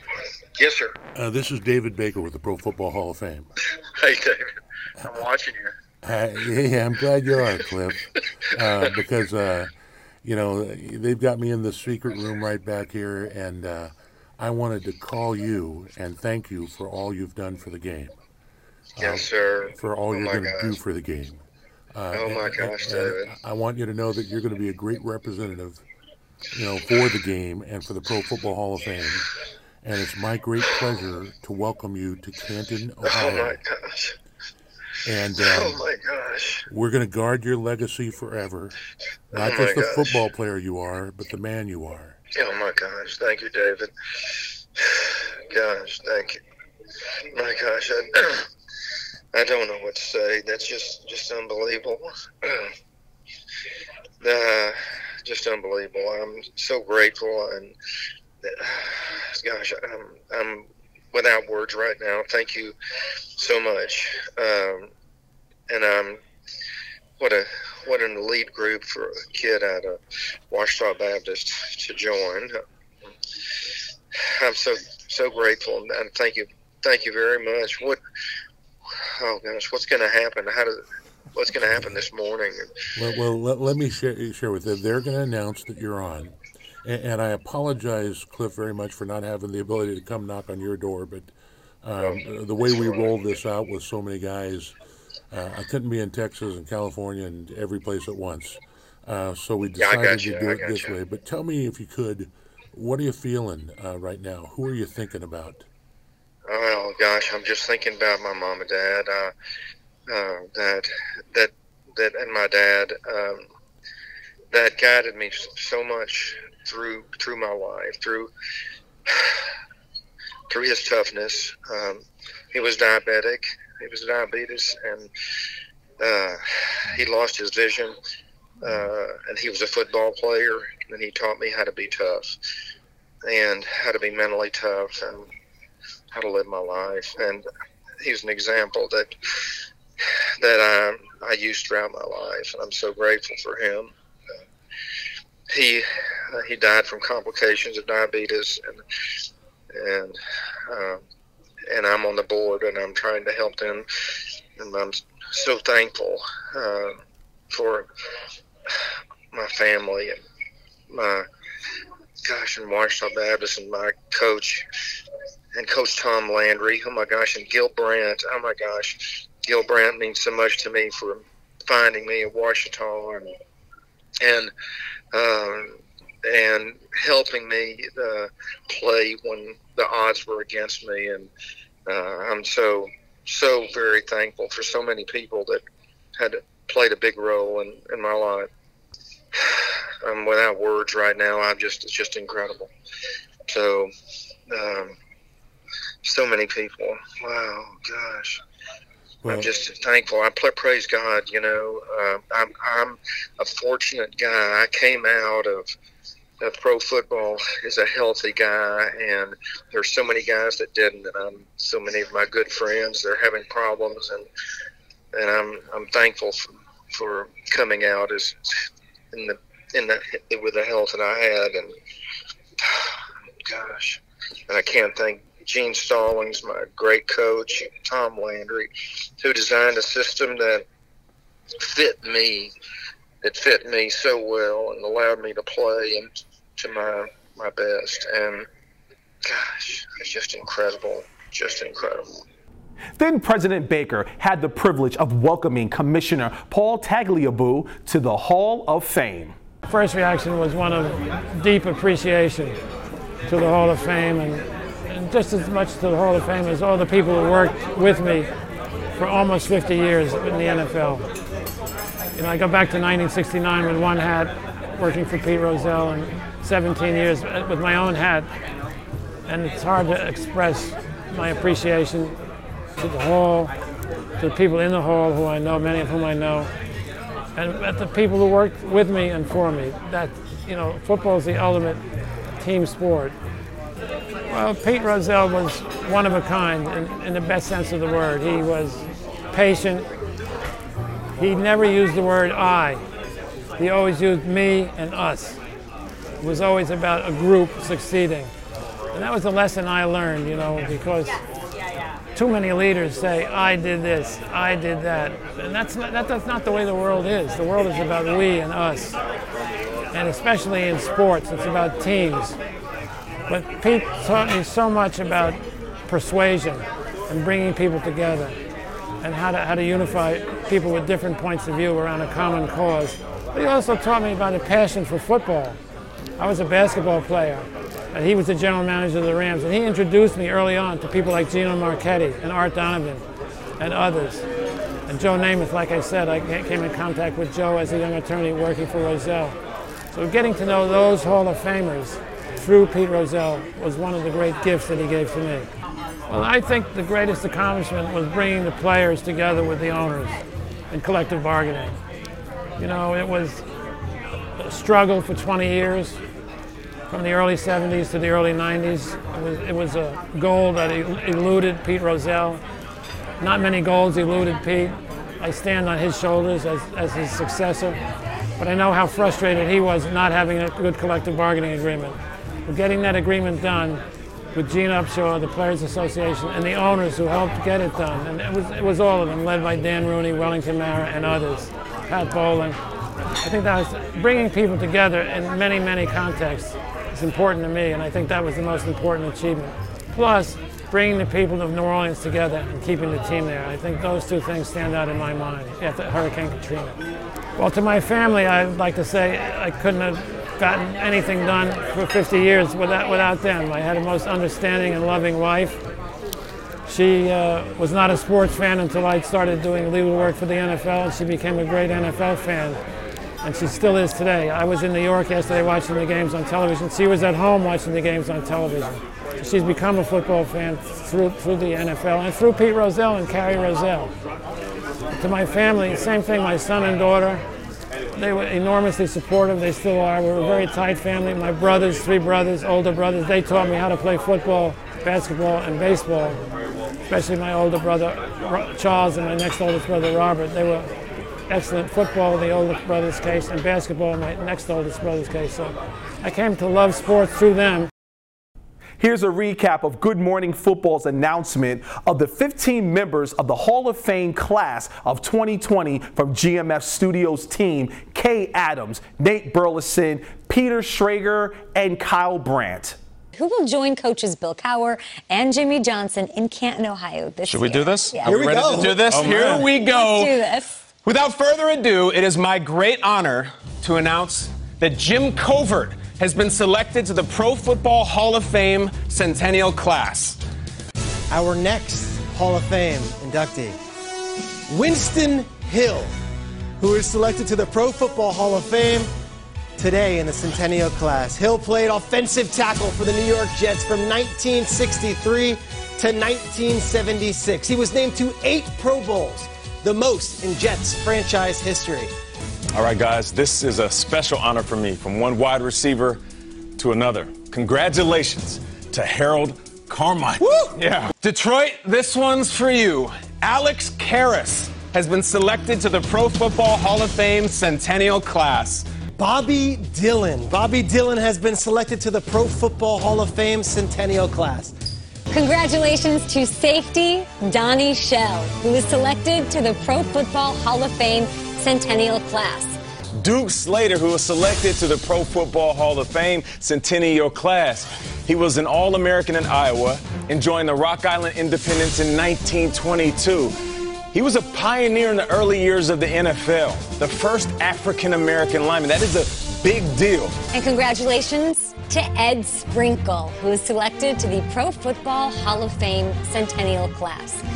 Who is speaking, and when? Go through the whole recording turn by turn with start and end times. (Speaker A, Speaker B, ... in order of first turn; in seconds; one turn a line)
Speaker A: 0.6-0.9
Speaker B: 1.1-3.5
Speaker A: 4.0-5.7
Speaker B: 6.0-9.7
Speaker B: 10.2-18.1
Speaker B: 19.0-25.8
Speaker A: 19.0-20.7
Speaker A: 22.1-23.3
Speaker B: 26.5-29.3
Speaker B: 29.8-33.6
Speaker A: 33.0-34.1
Speaker B: 35.0-35.8
Speaker A: 35.4-36.6
Speaker B: 36.7-38.8
Speaker A: 39.3-40.2
Speaker B: 39.3-42.2
Speaker A: 42.3-46.4
Speaker A: 47.3-48.5
Speaker A: 49.3-52.7
Speaker A: 54.2-57.7
Speaker A: 58.4-62.7
Speaker A: 63.4-64.9
Speaker A: 65.7-66.2
Speaker A: 67.2-70.0
Speaker A: 70.5-73.1
Speaker A: 74.2-78.0
Speaker A: 79.0-80.8
Speaker A: 81.3-82.8
Speaker B: 82.9-91.3
Speaker B: 91.8-94.7
Speaker A: 92.0-93.1
Speaker B: 95.3-105.7
Speaker A: 99.8-100.9
Speaker A: 106.5-109.3
Speaker A: 110.1-113.5
Speaker A: 114.5-118.3
Speaker A: 119.1-119.5
Speaker A: 120.5-125.1
Speaker A: 126.0-128.0
Speaker A: 128.6-132.3
Speaker A: 133.2-135.3
Speaker A: 136.1-137.4
Speaker A: 138.0-139.5
Speaker A: 140.0-143.9
Speaker A: 145.5-148.8
Speaker A: 149.7-151.0
Speaker A: 151.7-153.8
Speaker A: 154.6-157.9
Speaker A: 159.3-160.2
Speaker A: 160.9-161.2
Speaker A: 162.2-164.7
Speaker A: 165.5-173.3
Speaker A: 174.2-174.5
Speaker A: 175.1-181.3
Speaker A: 181.9-185.6
Speaker A: 186.2-188.5
Speaker A: 189.3-192.7
Speaker A: 193.5-193.9
Speaker A: 194.5-194.9
Speaker A: 196.0-198.4
Speaker B: 199.2-199.5
Speaker A: 199.2-205.7
Speaker A: 206.4-214.2
Speaker A: 215.1-218.3
Speaker A: 219.1-221.7
Speaker A: 222.6-222.9
Speaker A: 223.4-230.6
Speaker A: 231.6-232.5
Speaker A: 233.2-238.5
Speaker A: 239.2-242.2
Speaker C: 243.0-249.3
Speaker D: 249.7-252.6
Speaker D: 253.3-258.3
Speaker D: 258.9-261.1
Speaker D: 262.1-268.3
Speaker D: 269.3-272.1
Speaker D: 272.8-273.5
Speaker D: 274.2-276.5
Speaker D: 277.4-281.8
Speaker D: 282.4-283.1
Speaker D: 284.3-289.9
Speaker D: 291.2-292.8
Speaker D: 293.6-295.4
Speaker D: 296.2-298.3
Speaker D: 298.9-301.2
Speaker D: 302.1-308.9
Speaker D: 309.9-312.4
Speaker D: 313.3-318.4
Speaker D: 319.0-325.6
Speaker D: 326.2-333.0
Speaker D: 333.6-334.2
Speaker D: 334.9-339.4
Speaker D: 339.9-345.5
Speaker D: 346.1-350.2
Speaker D: 350.7-351.8
Speaker D: 352.6-353.4
Speaker D: 354.4-356.0
Speaker D: 356.9-362.4
Speaker D: 363.2-367.8
Speaker D: 368.4-373.8
Speaker D: 374.3-382.6
Speaker D: 383.2-396.8
Speaker D: 397.4-405.6
Speaker D: 406.7-412.6
Speaker D: 413.2-423.9
Speaker D: 424.9-427.2
Speaker D: 427.9-436.2
Speaker D: 436.9-440.7
Speaker D: 441.3-447.7
Speaker C: 448.8-462.8
Speaker E: 463.1-468.2
Speaker F: 467.3-470.2
Speaker G: 468.0-469.4
Speaker H: 468.9-469.4
Speaker E: 469.6-470.6
Speaker F: 470.8-480.2
Speaker G: 481.1-483.6
Speaker G: 484.5-485.9
Speaker G: 486.6-488.9
Speaker G: 489.6-501.9
Speaker H: 502.5-506.0
Speaker F: 505.5-506.0
Speaker H: 506.6-508.0
Speaker F: 507.2-518.7
Speaker H: 508.6-509.5
Speaker G: 519.0-524.5
Speaker E: 525.1-532.6
Speaker H: 532.9-543.3
Speaker F: 541.7-542.5
Speaker H: 543.9-550.1
Speaker F: 546.6-547.3
Speaker F: 548.7-549.6
Speaker E: 550.3-557.2